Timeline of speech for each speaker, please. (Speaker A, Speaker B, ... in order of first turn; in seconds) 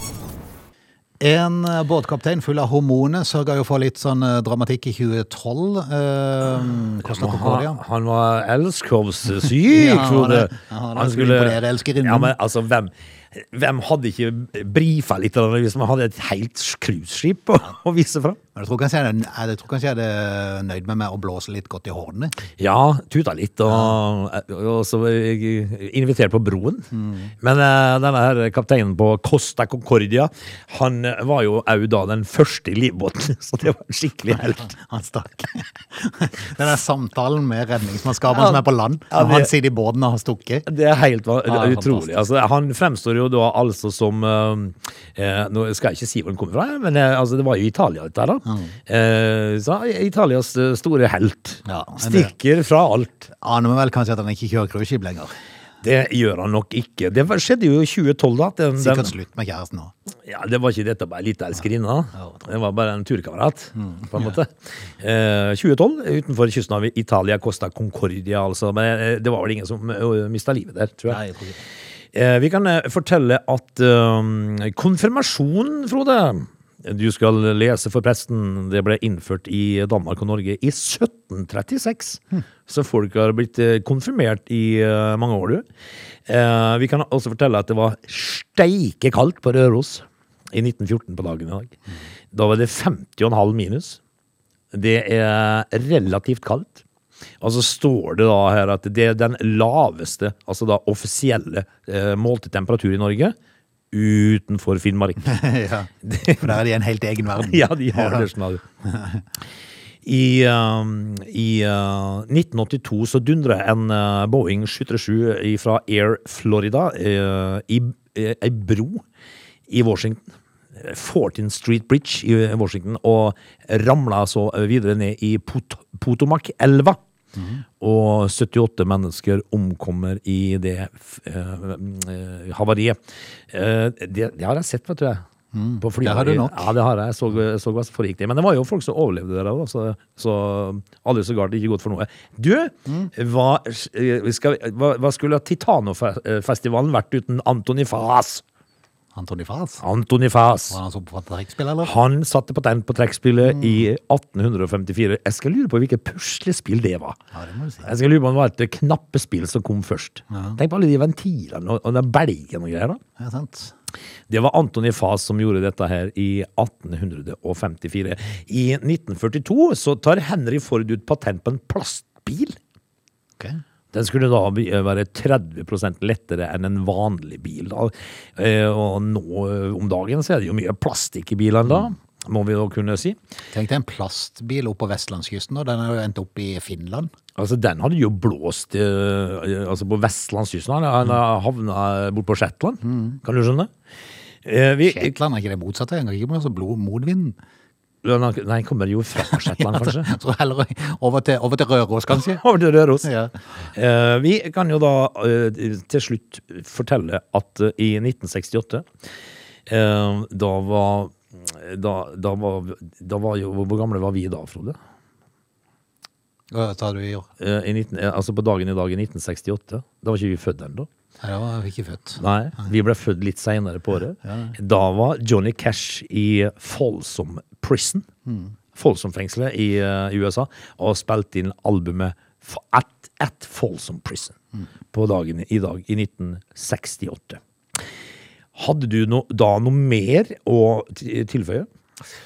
Speaker A: 1.2-7.8, 9.6-12.3, 18.5-22.3, 23.7-23.9, 26.9-27.3, 34.4-40.7, 41.5-42.1, 51.6-52.3, 53.3-55.3, 58.8-59.9, 63.8-64.4, 71.1-71.6, 105.2-108.3, 108.8-109.2, 127.3-127.6, 135.5-136.7, 149.1-149.8, 150.7-151.9, 153.5-153.8, 157.3-157.9, 160.3-160.6, 163.2-163.7, 183.5-187.1, 192.8-193.2, 194.8-197.3, 199.3-202.4, 203.0-203.3, 216.5-217.3, 221.2-222.2, 224.2-224.5, 228.3-228.5
Speaker B: 7.0-18.4, 22.6-26.9, 27.4-34.7, 38.3-39.5, 40.7-53.3, 55.8-59.1, 60.2-71.2, 72.1-85.7, 86.3-91.8, 92.3-94.0, 94.7-96.8, 97.4-103.3, 103.9-105.3, 106.0-106.5, 107.4-108.6, 110.0-119.0, 119.7-127.0, 127.8-133.0, 133.5-135.2, 135.8-148.4, 149.8-150.8, 151.8-157.2, 157.8-163.0, 164.3-172.6, 173.9-183.2, 187.3-193.7, 194.4-195.1, 198.0-200.1, 202.1-203.1, 203.7-208.9, 209.7-214.8, 217.4-220.9, 222.2-228.1, 228.7-234.3, 234.9-237.4, 238.6-241.7